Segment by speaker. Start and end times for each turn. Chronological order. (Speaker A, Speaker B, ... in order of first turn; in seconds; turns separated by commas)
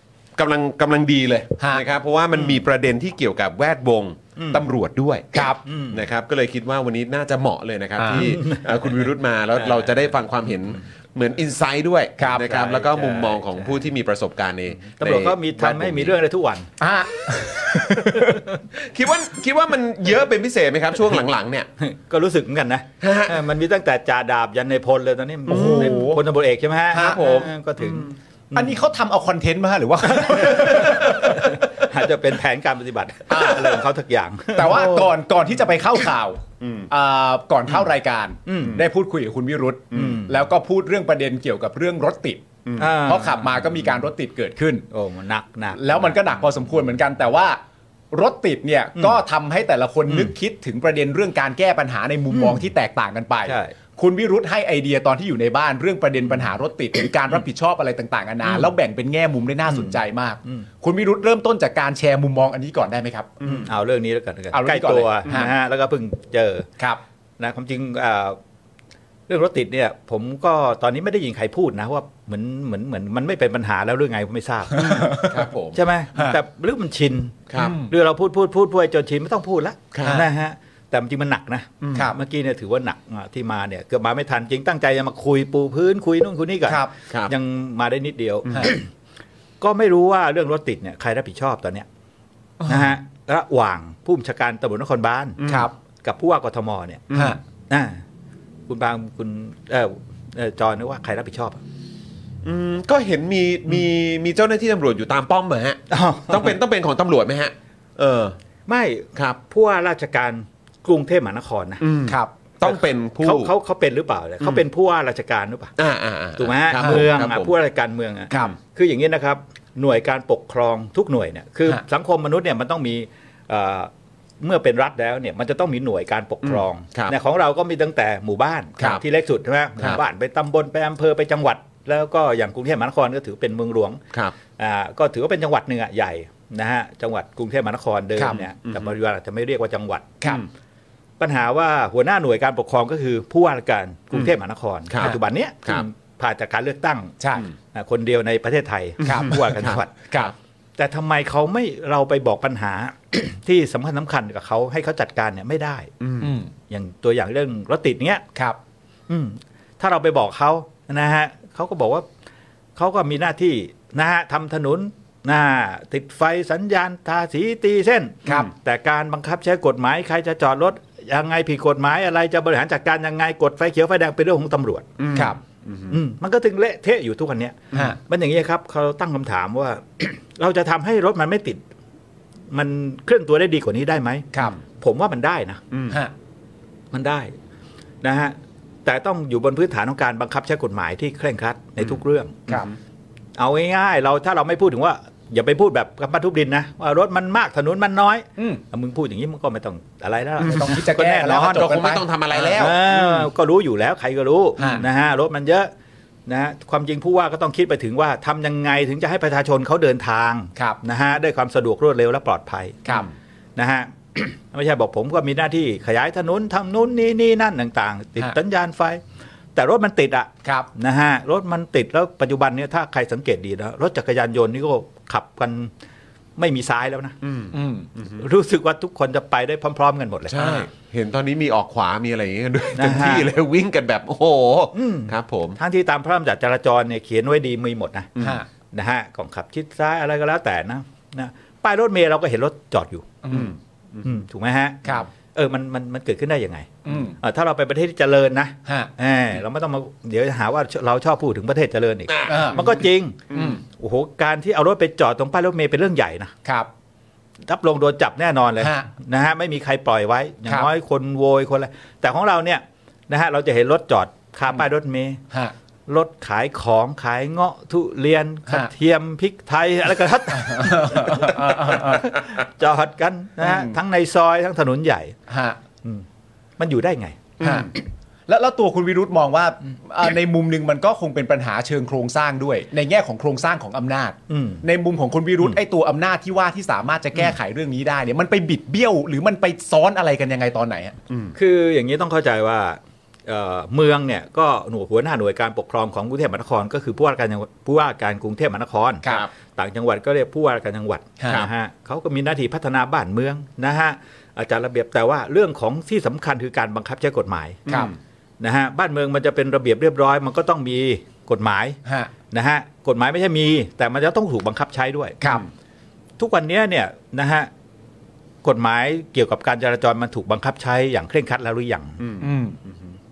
Speaker A: 0.4-16.1, Speaker B: 5.3-5.6, Speaker C: 5.6-6.0, Speaker B: 8.0-8.2, Speaker C: 8.2-8.7, Speaker B: 12.2-12.7, Speaker C: 12.5-13.7, Speaker C: 14.9-16.7, Speaker B: 16.8-18.4, Speaker A: 18.7-21.7, Speaker C: 21.8-28.7, Speaker A: 23.0-23.4, Speaker B: 25.5-26.2, Speaker A: 25.5-25.9, Speaker B: 26.9-27.5, Speaker A: 27.0-28.1, Speaker B: 28.5-31.6, Speaker C: 30.2-35.1, Speaker B: 33.3-33.8, Speaker B: 34.5-44.9, Speaker A: 36.6-36.9, Speaker C: 38.5-38.8, Speaker A: 39.9-40.2, Speaker C: 40.0-40.3, Speaker A: 42.6-42.9, Speaker C: 42.8-43.7, Speaker C: 44.9-46.2, Speaker B: 45.7-47.6, Speaker B: 48.1-63.4, Speaker C: 52.3-52.6, Speaker C: 53.5-53.7, Speaker C: 59.7-60.6, Speaker C: 63.4-66.7, Speaker B: 64.5-65.5, Speaker C: 67.4-68.4, Speaker C: 69.3-88.9, Speaker B: 74.7-75.4, Speaker A: 75.1-75.8, Speaker A: 77.5-77.8, Speaker B: 77.5-77.9, Speaker A: 79.9-80.2, Speaker A: 81.8-82.1, Speaker B: 88.5-88.7, Speaker C: 89.6-91.9, Speaker B: 92.6-92.9, Speaker C: 92.7-95.4, Speaker A: 95.4-95.7, Speaker B: 95.5-95.7, Speaker C: 96.0-97.0, Speaker A: 97.1-97.3, Speaker B: 97.1-97.4, Speaker C: 97.7-98.0, Speaker C: 98.7-101.6, Speaker A: 102.4-108.4, Speaker C: 105.9-106.5, Speaker C: 108.7-111.8, Speaker A: 111.8-113.5, Speaker B: 112.0-112.3, Speaker C: 112.6-115.7, Speaker A: 115.8-117.5, Speaker C: 116.4-134.0, Speaker A: 126.5-127.1, Speaker C: 134.6-140.2, Speaker A: 138.3-138.9, Speaker C: 141.2-147.2, Speaker A: 144.9-145.8, Speaker B: 147.2-147.4, Speaker C: 147.7-149.9, Speaker B: 149.0-149.4, Speaker A: 149.3-149.8, Speaker C: 150.8-155.9, Speaker A: 156.0-156.3, Speaker B: 156.2-156.5, Speaker C: 156.7-158.2, Speaker C: 159.1-162.1, Speaker C: 162.8-175.0, Speaker A: 175.0-175.9, Speaker C: 175.9-181.6, Speaker B: 177.7-178.0, Speaker C: 182.5-185.6, Speaker A: 185.7-186.0, Speaker C: 186.9-187.3, Speaker C: 188.0-192.6, Speaker C: 193.4-201.7, Speaker B: 198.4-198.6, Speaker B: 200.4-202.7, Speaker A: 201.4-202.8, Speaker C: 202.5-205.7, Speaker B: 204.6-204.8, Speaker C: 206.3-212.9, Speaker C: 213.6-219.0, Speaker C: 219.5-225.7, Speaker C: 226.4-227.2, Speaker A: 227.2-228.2, Speaker B: 227.5-227.9, Speaker C: 228.2-230.7, Speaker A: 230.3-235.6, Speaker C: 232.8-233.3, Speaker C: 234.7-238.2, Speaker B: 238.2-238.4, Speaker C: 238.7-243.2, Speaker B: 243.2-243.5, Speaker A: 243.3-244.0, Speaker C: 244.0-244.8, Speaker C: 245.3-256.3, Speaker B: 246.8-247.2, Speaker A: 252.1-252.5, Speaker B: 252.3-252.7, Speaker A: 253.3-253.6, Speaker B: 253.3-253.6, Speaker C: 257.4-265.2, Speaker B: 258.6-258.9, Speaker C: 265.9-275.1, Speaker B: 270.3-272.1, Speaker B: 273.4-273.7, Speaker B: 275.3-275.6, Speaker C: 276.6-277.3, Speaker B: 277.4-277.7, Speaker B: 278.3-290.9, Speaker C: 284.3-284.6, Speaker A: 291.1-291.4, Speaker C: 291.3-307.7, Speaker B: 301.2-301.4, Speaker B: 307.7-307.9, Speaker C: 308.4-311.8, Speaker B: 311.8-312.1, Speaker C: 312.3-315.2, Speaker B: 315.2-315.4, Speaker C: 316.2-317.5, Speaker C: 318.4-322.0, Speaker A: 322.0-322.7, Speaker B: 322.2-322.6